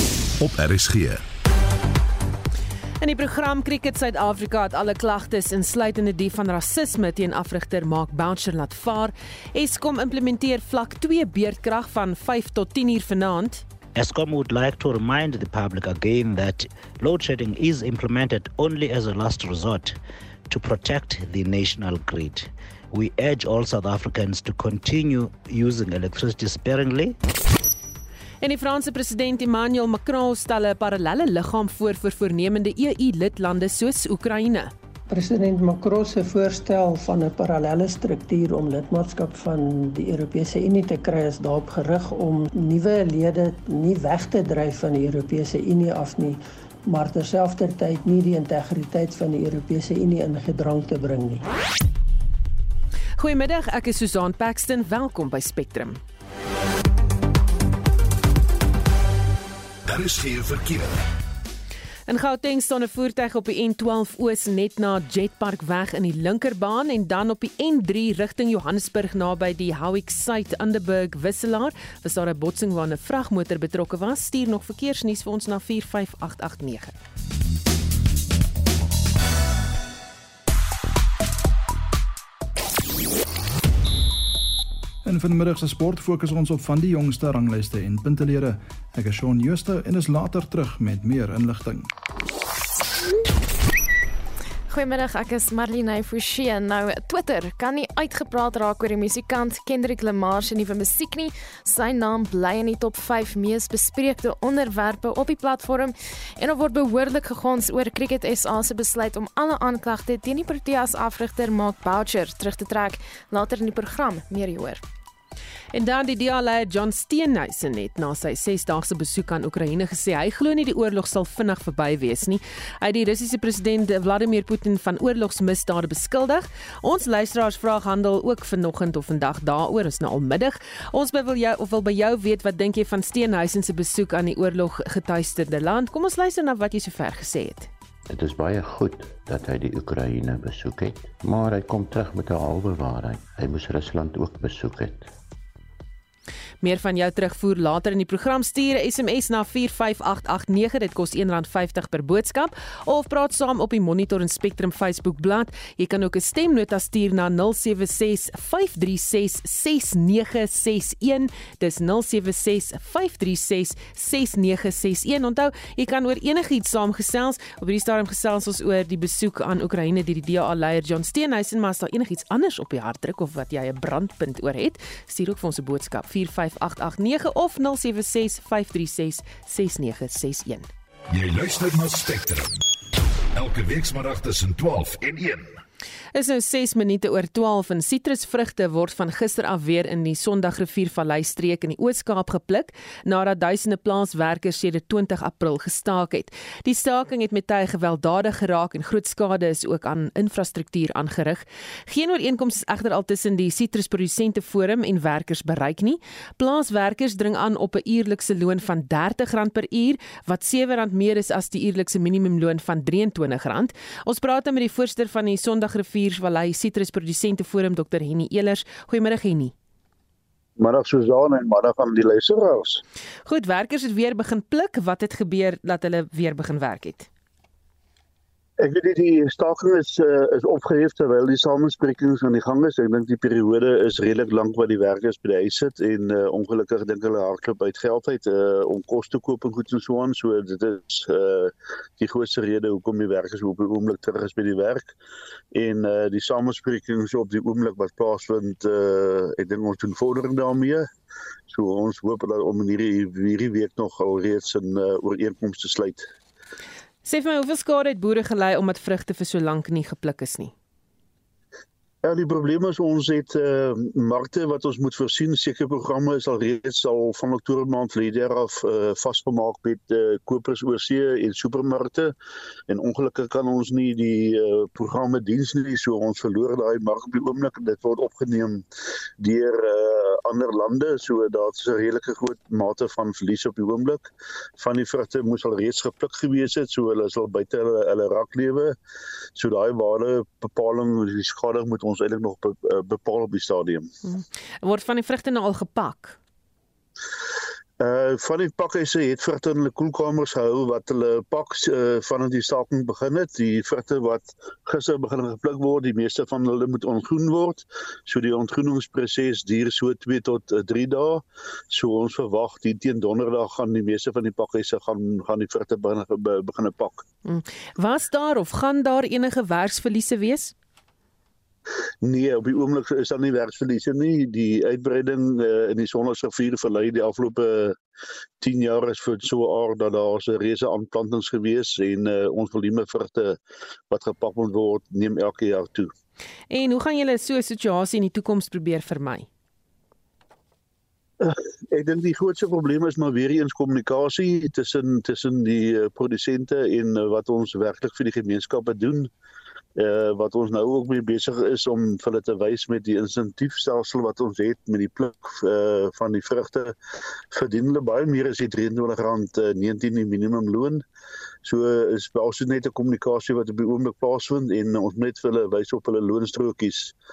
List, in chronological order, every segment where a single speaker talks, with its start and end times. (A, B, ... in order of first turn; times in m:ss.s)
0:00.4-0:01.2 A
0:03.0-0:13.6 B
0:13.9-0:20.0 C
0:20.5-0:27.2 C
0:28.4-0:34.7 B
0:35.1-0:51.4 D
0:53.2-0:56.0 B
0:59.9-1:01.0 A
1:02.1-1:16.9 B
1:25.0-1:31.9 E
1:34.7-1:54.8 F
1:55.7-2:17.7 B
2:18.1-2:25.1 G
2:26.6-3:00.7 B
3:01.1-3:02.6 A
3:03.3-3:05.6 A
3:06.1-3:39.5 B
3:40.6-3:42.8 H
3:43.2-3:47.1 B
3:48.6-4:04.9 H
4:05.5-4:10.9 H
4:11.5-4:16.1 H
4:17.0-4:20.5 B
4:22.0-4:32.1 H
4:32.7-4:38.6 H
4:39.2-4:48.8 H
4:49.3-4:53.9 H
4:54.0-4:56.2 B
4:57.8-5:17.0 H
5:17.2-5:20.5 B
5:22.0-5:27.8 H
5:28.4-5:35.9 H
5:36.5-5:39.3 B
5:41.2-5:49.1 H
5:49.8-5:56.8 H
5:57.3-6:00.8 H
6:01.4-6:06.9 H